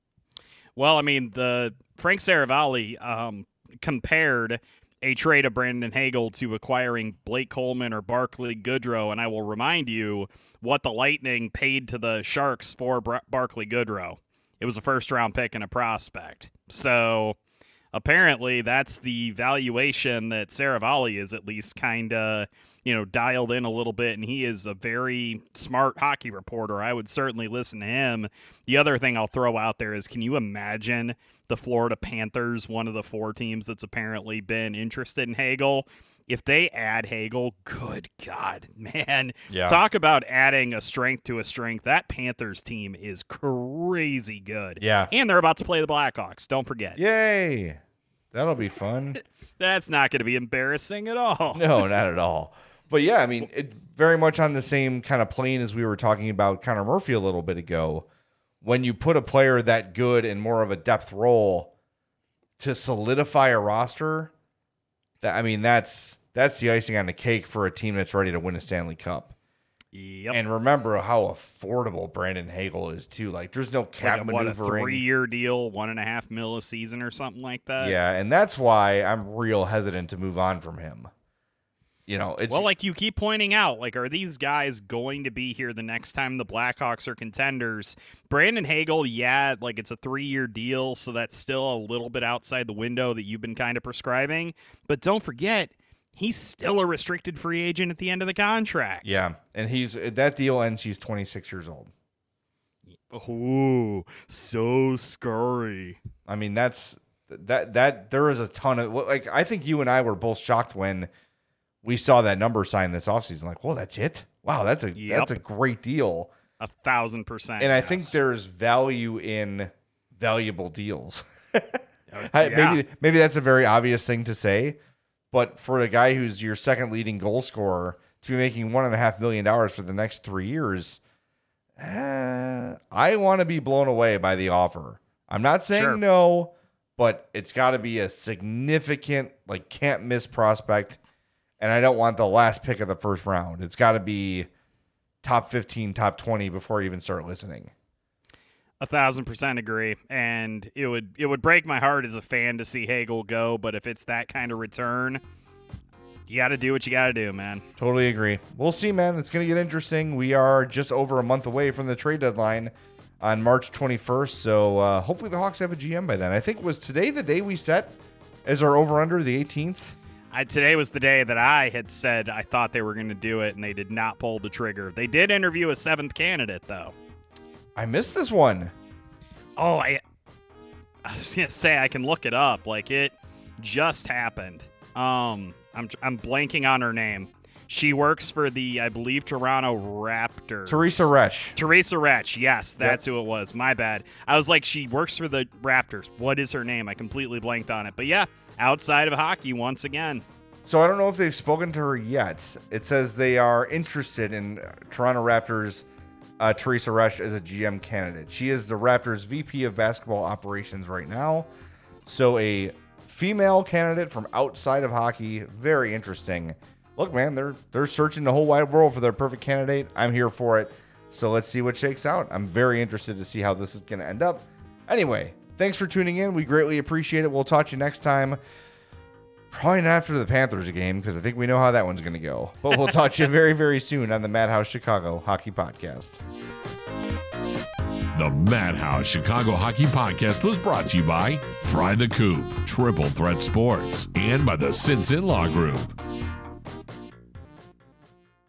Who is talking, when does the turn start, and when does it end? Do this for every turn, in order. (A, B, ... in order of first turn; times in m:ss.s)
0:00.8-0:17.4 A
0:17.9-0:47.0 A
0:39.5-0:39.8 B
0:44.8-0:45.1 B
0:47.0-0:47.8 B
0:48.3-0:49.2 B
0:49.6-0:51.7 A
0:51.5-0:58.1 B
0:58.6-1:01.7 B
1:02.6-1:04.3 B
1:05.2-1:09.4 B
1:09.9-1:10.4 A
1:10.3-1:15.0 B
1:14.0-1:18.0 A
1:17.8-1:21.1 B
1:22.1-1:22.7 B
1:22.5-1:39.2 A
1:39.0-1:41.9 B
1:42.9-1:46.0 A
1:46.3-1:51.1 B
1:51.8-1:56.3 B
1:55.0-1:55.4 A
1:56.6-1:58.2 A
1:57.6-2:04.8 B
2:02.1-2:02.8 A
2:05.3-2:11.0 B
2:11.8-2:21.0 B
2:15.7-2:16.0 A
2:21.6-2:24.5 B
2:25.2-2:27.7 B
2:28.8-2:35.2 A
2:36.3-2:37.7 A
2:37.8-2:50.0 B
2:50.3-2:57.0 A
2:57.8-2:58.7 B
2:59.6-3:00.0 A
3:01.0-3:20.2 A
3:10.7-3:11.6 B
3:20.6-3:25.8 B
3:26.4-3:31.5 B
3:32.1-3:48.4 B
3:49.5-3:56.2 B
3:58.1-4:05.9 C